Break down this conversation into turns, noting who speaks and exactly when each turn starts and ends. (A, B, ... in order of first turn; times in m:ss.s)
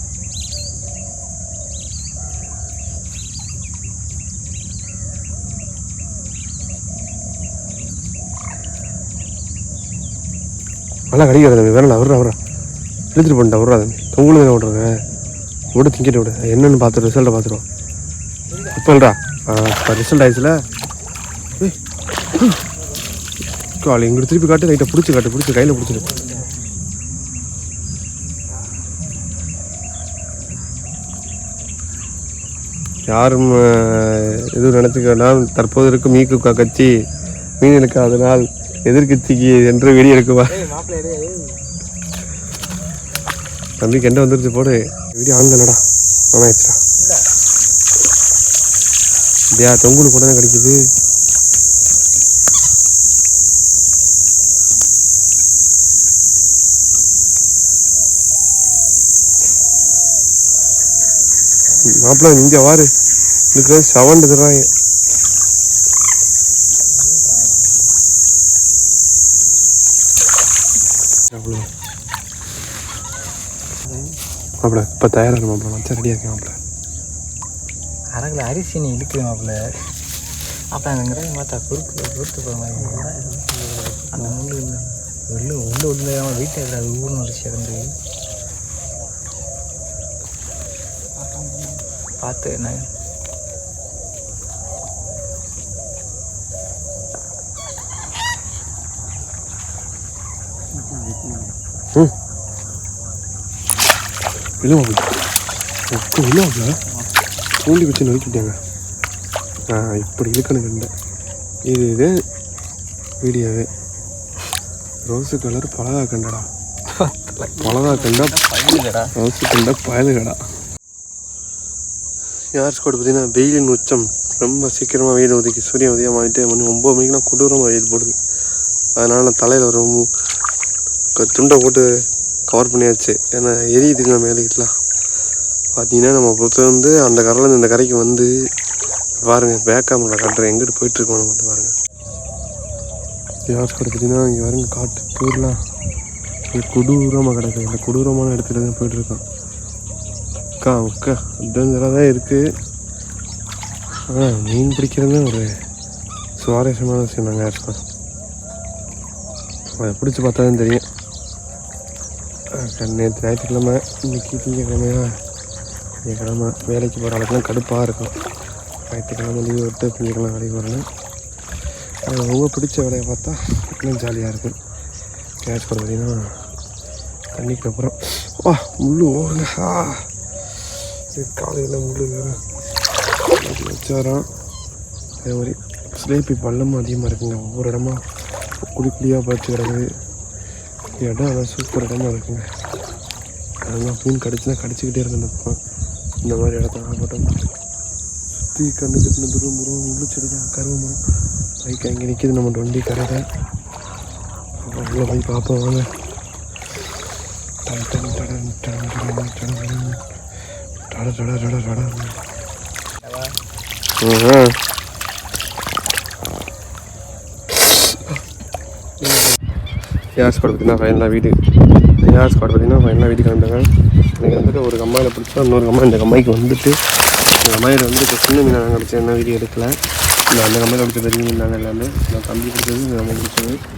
0:11.1-0:12.4 A
0:13.1-0:14.9 A
0:15.7-0:17.6 A
0:18.5-0:18.8 B
0:18.7-0:20.6 A
0:23.8-0:26.1 A
0:25.9-0:26.5 B
0:33.1-0:36.9 A
0:37.6-0:40.6 A
0:40.5-0:41.6 B
0:43.8-0:45.8 A
0:46.3-0:46.8 A
0:49.5-0:50.8 A
1:01.9-1:02.9 A
1:03.5-1:04.7 A
1:06.9-1:07.9 B
1:11.3-1:11.7 A
1:13.8-1:14.1 C
1:14.6-1:16.6 A
1:18.2-1:19.6 B
1:20.7-1:23.2 B
1:22.8-1:24.4 C
1:24.1-1:27.8 B
1:31.3-1:31.8 C
1:32.2-1:32.9 B
1:40.7-1:41.6 C
1:44.6-1:45.1 A
1:45.9-1:46.7 A
1:47.6-1:48.6 A
1:49.7-1:50.9 A
1:51.7-1:52.1 A
1:53.2-1:53.7 A
1:55.1-1:56.5 A
1:56.9-1:57.5 B
1:57.6-1:59.1 C
1:57.6-1:58.4 A
1:59.2-2:00.4 A
2:02.5-2:08.2 A
2:09.0-2:10.1 A
2:11.2-2:11.8 A
2:12.5-2:14.7 A
2:15.8-2:18.3 A
2:19.2-2:21.7 A
2:23.5-2:25.6 A
2:26.5-2:29.2 A
2:30.6-2:32.4 A
2:34.1-2:35.5 A
2:36.4-2:37.8 A
2:39.8-2:40.8 A
2:42.6-2:45.1 A
2:46.1-2:48.1 A
2:48.9-2:50.8 A
2:52.1-2:54.6 A
2:55.4-2:56.4 A
2:57.4-3:00.1 A
3:00.7-3:02.4 A
3:03.4-3:04.3 A
3:05.2-3:08.0 A
3:08.7-3:09.8 A
3:11.0-3:12.5 A
3:13.6-3:15.6 A
3:16.2-3:17.4 A
3:18.4-3:21.0 A
3:21.6-3:23.2 A
3:24.6-3:25.9 A
3:27.7-3:30.0 A
3:30.9-3:32.2 A
3:33.0-3:33.3 B
3:34.0-3:34.5 A
3:39.0-3:39.3 A
3:40.2-3:41.4 A
3:42.0-3:46.8 A
3:47.4-3:49.7 A
3:50.3-3:53.6 A